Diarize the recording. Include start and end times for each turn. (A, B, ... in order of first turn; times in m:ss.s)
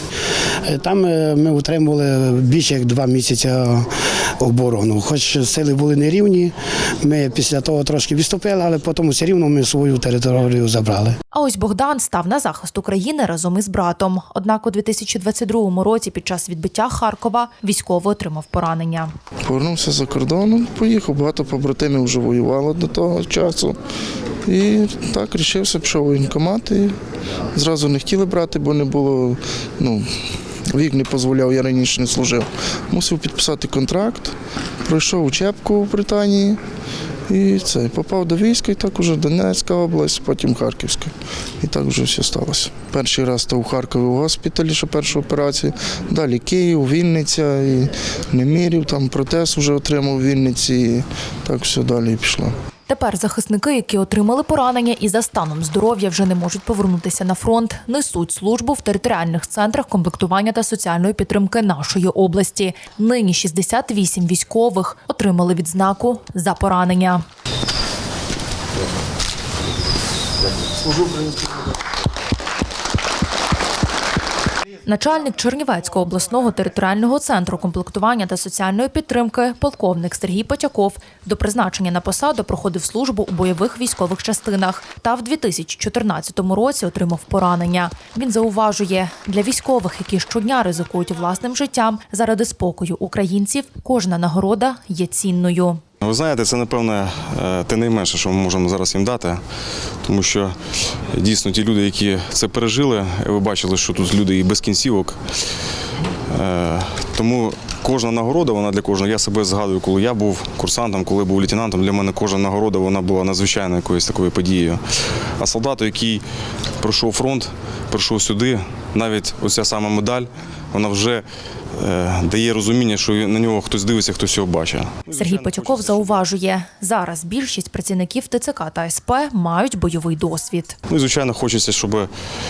0:00.6-0:11.2 A
0:11.3-0:19.1 B
0:19.4-0:23.8 C
0:24.4-0:27.0 C
0:27.5-0:30.1 C
0:30.7-0:36.6 C
0:37.3-0:52.6 C
0:52.9-1:07.2 B
1:14.8-1:35.8 B
1:36.0-1:39.4 D
1:40.0-1:40.5 D
1:41.1-1:45.2 D
1:46.3-1:54.8 D
1:55.4-1:56.2 D
1:56.8-2:01.2 D
2:01.8-2:06.2 D
2:05.1-2:10.8 B
2:10.9-2:12.1 D